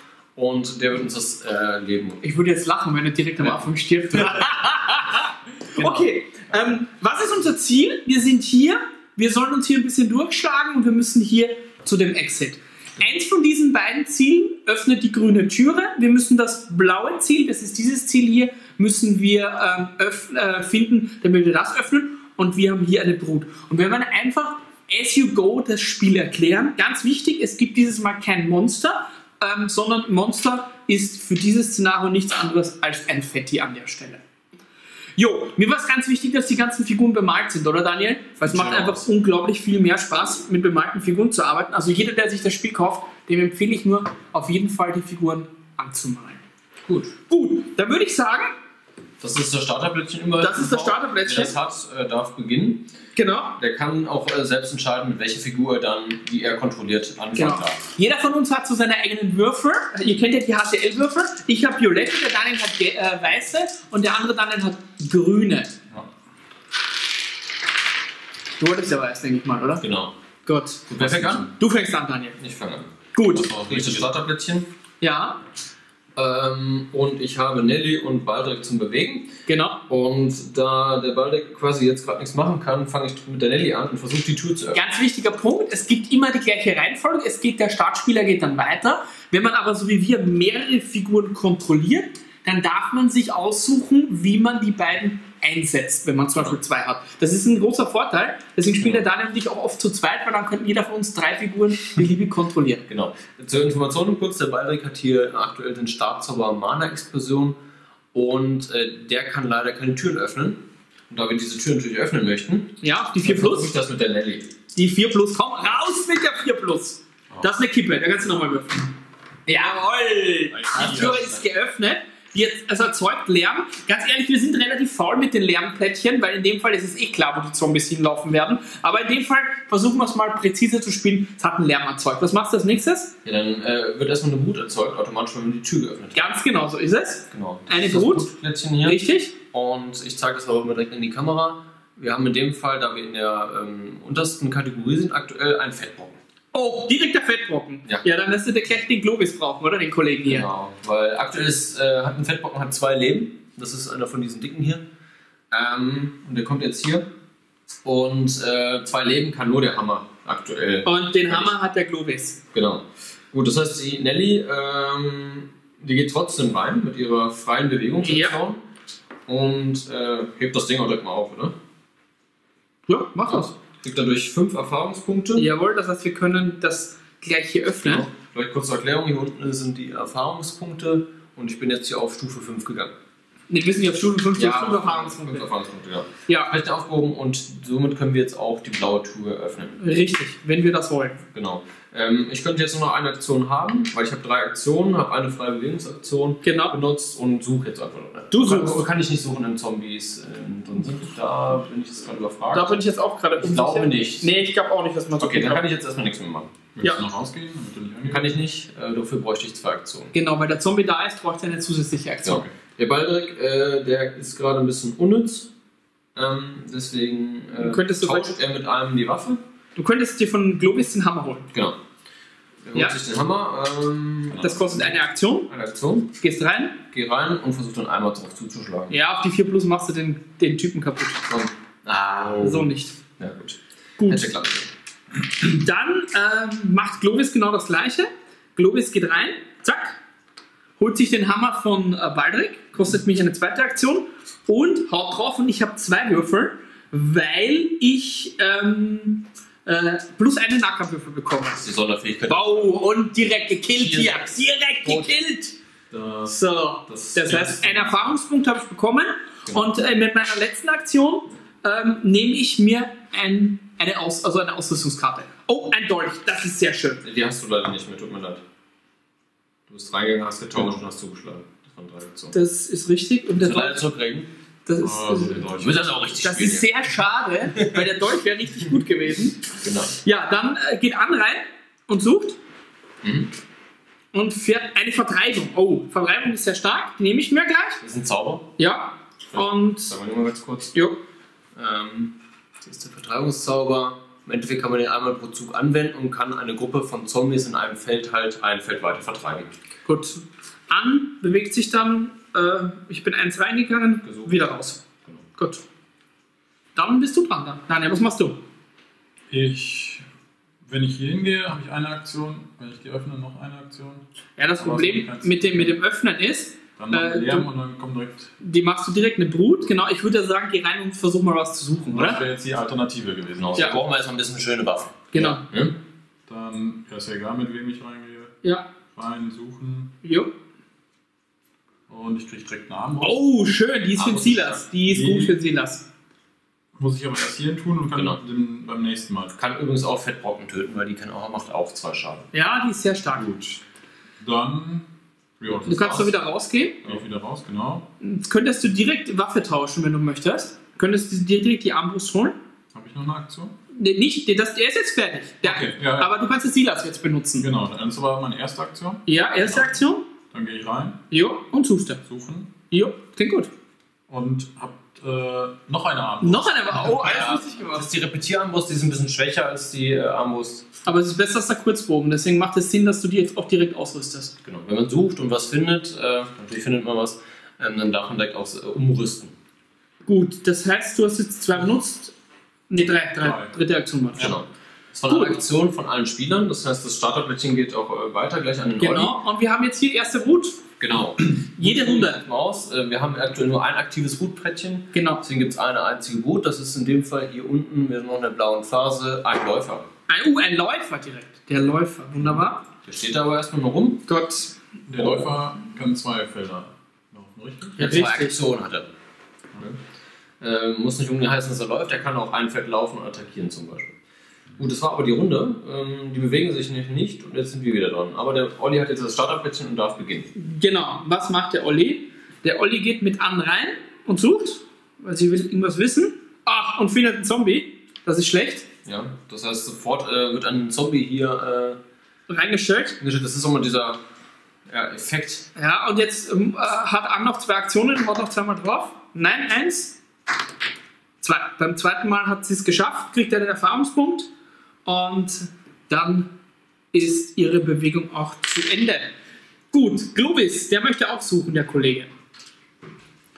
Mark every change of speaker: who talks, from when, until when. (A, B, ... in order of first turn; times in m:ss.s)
0:00.4-0:02.2 A
0:02.2-0:34.2 B
0:04.2-0:04.5 A
0:05.8-0:06.0 A
0:35.2-0:46.4 B
0:38.4-0:39.0 A
0:46.8-0:47.1 A
0:47.3-0:48.6 B
0:49.2-0:52.9 A
0:50.4-0:51.6 B
0:53.1-0:53.6 B
0:53.6-0:57.8 A
0:57.3-1:05.7 B
1:08.6-1:09.8 B
1:09.8-1:10.1 A
1:10.4-1:10.8 B
1:10.9-1:11.5 A
1:11.0-1:11.5 C
1:11.4-1:12.4 B
1:12.4-1:14.7 A
1:13.1-1:13.5 B
1:13.4-1:14.0 C
1:15.0-1:15.4 B
1:16.2-1:24.9 A
1:19.5-1:19.8 B
1:24.7-1:42.8 B
1:38.8-1:39.0 C
1:42.9-1:47.6 A
1:48.1-1:54.5 A
1:52.8-1:53.7 B
1:54.7-1:58.9 B
1:59.5-2:13.1 B
2:00.5-2:01.3 C
2:13.2-2:16.4 A
2:16.1-2:18.3 B
2:17.3-2:26.2 A
2:18.8-2:19.3 B
2:26.5-2:30.5 B
2:30.2-2:34.8 A
2:35.5-2:37.1 A
2:37.8-2:41.5 A
2:40.8-2:42.4 B
2:42.5-2:48.6 A
2:48.0-2:48.4 B
2:49.3-2:51.5 A
2:52.9-2:53.5 B
2:53.3-2:55.5 A
2:55.4-2:58.1 B
2:57.8-3:02.9 A
3:03.5-3:05.4 B
3:04.3-3:09.8 A
3:06.3-3:06.5 B
3:09.8-3:11.2 B
3:11.3-3:22.8 A
3:16.4-3:16.8 B
3:18.3-3:18.8 B
3:22.5-3:25.6 B
3:23.4-3:24.3 A
3:25.2-3:26.5 A
3:26.7-3:28.3 C
3:28.0-3:30.1 A
3:30.1-3:32.4 B
3:32.2-3:35.5 A
3:36.1-3:39.4 A
3:37.6-3:38.4 B
3:39.8-3:41.5 B
3:42.6-3:44.6 A
3:44.3-3:44.7 C
3:44.4-3:45.5 B
3:45.5-3:46.2 A
3:46.2-3:46.8 B
3:46.9-3:49.0 A
3:48.9-3:51.3 B
3:51.3-3:52.6 A
3:52.1-3:52.7 C
3:52.4-3:53.0 B
3:53.2-3:54.7 A
3:54.0-3:54.3 B
3:55.4-4:00.0 B
4:00.8-4:11.6 B
4:11.5-4:12.8 A
4:12.3-4:15.5 B
4:13.7-4:15.1 A
4:15.9-4:16.3 C
4:16.2-4:27.0 B
4:16.9-4:17.8 A
4:17.2-4:18.0 C
4:19.5-4:19.7 A
4:27.0-4:28.4 A
4:29.7-4:32.3 A
4:32.3-4:33.8 B
4:33.4-4:34.3 A
4:34.6-4:35.5 B
4:34.8-4:35.8 C
4:35.6-4:36.7 A
4:36.2-4:42.4 B
4:37.6-4:37.8 A
4:39.6-4:39.9 A
4:43.0-4:43.3 A
4:44.1-4:47.8 B
4:47.8-4:48.5 A
4:48.6-4:49.9 B
4:49.3-4:50.7 A
4:50.7-4:51.0 B
4:51.5-4:59.5 A
4:59.8-5:04.8 B
5:04.0-5:05.2 A
5:05.4-5:05.6 B
5:06.8-5:08.4 B
5:09.3-5:10.0 C
5:10.6-5:14.0 C
5:14.4-5:17.5 B
5:14.6-5:15.7 C
5:16.8-5:18.3 C
5:18.4-5:22.2 B
5:21.9-5:23.8 C
5:23.4-5:25.8 A
5:25.1-5:25.4 B
5:26.3-5:28.4 C
5:28.4-5:28.7 B
5:28.9-5:29.9 C
5:30.0-5:30.3 B
5:31.9-5:33.2 C
5:33.0-5:35.8 B
5:34.0-5:34.6 A
5:34.9-5:35.4 C
5:36.7-5:39.3 C
5:39.4-5:42.3 A
5:42.3-5:43.2 B
5:43.1-5:43.6 C
5:44.2-5:44.9 C
5:45.4-5:46.1 C
5:45.6-5:46.8 B
5:46.8-5:47.9 C
5:48.0-5:52.4 B
5:52.7-5:53.5 C
5:53.7-5:57.5 B
5:55.4-5:56.1 C
5:57.4-5:59.8 C
5:59.0-6:00.1 B
6:00.3-6:01.0 C
6:01.1-6:02.0 B
6:02.0-6:02.5 C
6:02.7-6:03.5 B
6:04.1-6:07.2 C
6:06.2-6:07.8 B
6:07.0-6:10.6 A
6:10.8-6:14.3 B
6:14.4-6:19.3 A
6:20.0-6:22.1 B
6:22.7-6:24.3 B
6:23.2-6:23.5 C
6:24.2-6:29.2 A
6:25.1-6:25.4 B
6:28.8-6:30.6 B
6:30.8-6:39.9 A
6:31.6-6:32.2 B
6:34.9-6:35.2 B
6:40.1-6:42.6 B
6:42.8-6:44.0 A
6:44.1-6:45.3 B
6:44.9-6:47.8 C
6:47.8-6:48.4 B
6:47.8-6:48.9 A
6:50.4-6:53.9 A
6:54.6-7:00.3 A
7:00.3-7:08.6 B
7:08.8-7:11.8 A
7:12.3-7:13.0 B
7:13.0-7:14.0 A
7:14.7-7:15.5 A
7:15.5-7:20.0 B
7:21.2-7:24.3 B
7:24.8-7:26.3 B
7:26.9-7:29.1 B
7:29.7-7:32.1 B